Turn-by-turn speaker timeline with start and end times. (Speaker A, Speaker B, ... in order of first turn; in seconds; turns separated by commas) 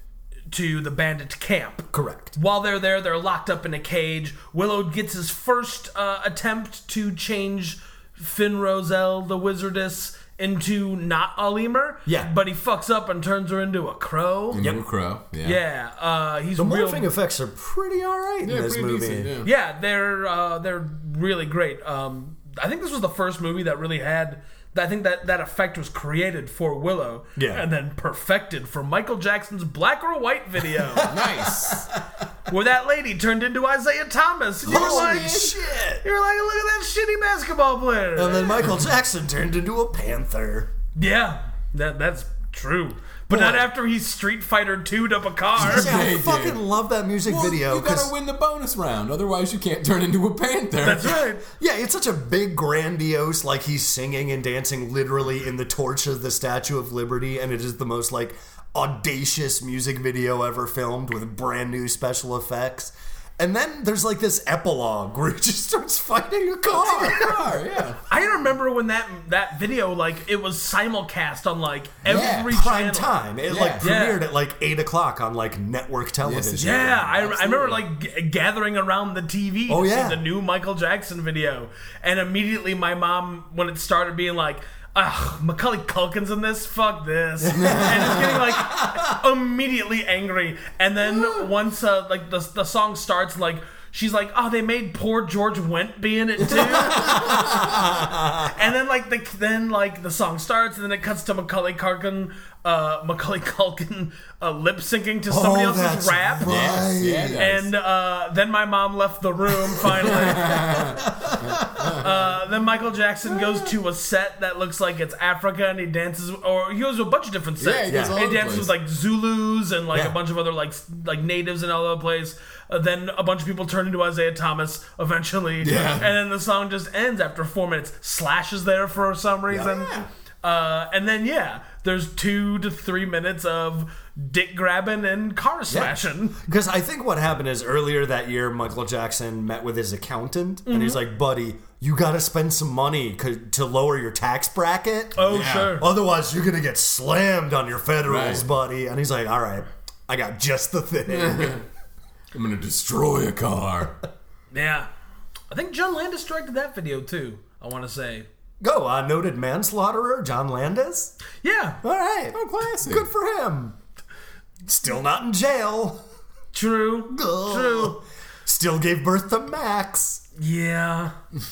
Speaker A: 0.5-14.6, Speaker B: 1.9-2.4, Speaker B: 12.1-12.3, Speaker C: 14.5-15.6, Speaker B: 14.6-14.8, Speaker A: 15.4-17.1, Speaker B: 16.6-19.3, Speaker C: 18.4-19.5, Speaker A: 19.4-31.1, Speaker B: 27.4-27.6, Speaker B: 31.0-32.0, Speaker C: 31.0-31.9, Speaker A: 32.5-35.5, Speaker C: 34.6-35.6, Speaker B: 34.6-36.0, Speaker A: 36.0-38.7, Speaker B: 38.1-40.7, Speaker A: 41.0-45.9, Speaker B: 43.3-43.7, Speaker B: 45.5-48.1, Speaker C: 45.6-46.6, Speaker C: 47.2-51.3, Speaker A: 50.8-51.4, Speaker B: 51.5-67.4, Speaker C: 66.7-68.0, Speaker A: 68.0-73.2, Speaker B: 72.0-77.0, Speaker C: 72.0-72.5, Speaker C: 73.5-73.8, Speaker A: 73.8-74.2, Speaker C: 76.2-77.8, Speaker A: 76.6-97.8, Speaker B: 79.7-80.2, Speaker B: 87.4-89.1, Speaker C: 87.5-88.4, Speaker B: 96.5-98.6, Speaker C: 96.8-97.7, Speaker A: 98.4-106.5, Speaker B: 105.3-107.5, Speaker C: 106.4-107.7, Speaker A: 107.4-110.8, Speaker C: 110.0-112.2, Speaker B: 111.0-111.5, Speaker A: 111.9-136.4, Speaker C: 113.3-113.7, Speaker C: 117.6-118.7, Speaker B: 117.9-118.2, Speaker C: 125.6-126.1, Speaker B: 129.5-129.8, Speaker C: 129.7-130.0, Speaker B: 135.7-151.6, Speaker A: 140.7-141.0, Speaker A: 145.1-145.9, Speaker C: 145.3-145.8, Speaker C: 148.1-148.4, Speaker C: 151.1-151.6, Speaker C: 152.3-154.0, Speaker A: 154.5-154.9, Speaker A: 155.5-158.2, Speaker B: 158.6-161.1, Speaker A: 161.4-161.8, Speaker B: 161.8-163.8, Speaker C: 162.3-163.1, Speaker B: 164.7-166.0, Speaker A: 166.5-168.0, Speaker B: 167.1-170.2, Speaker A: 170.3-171.1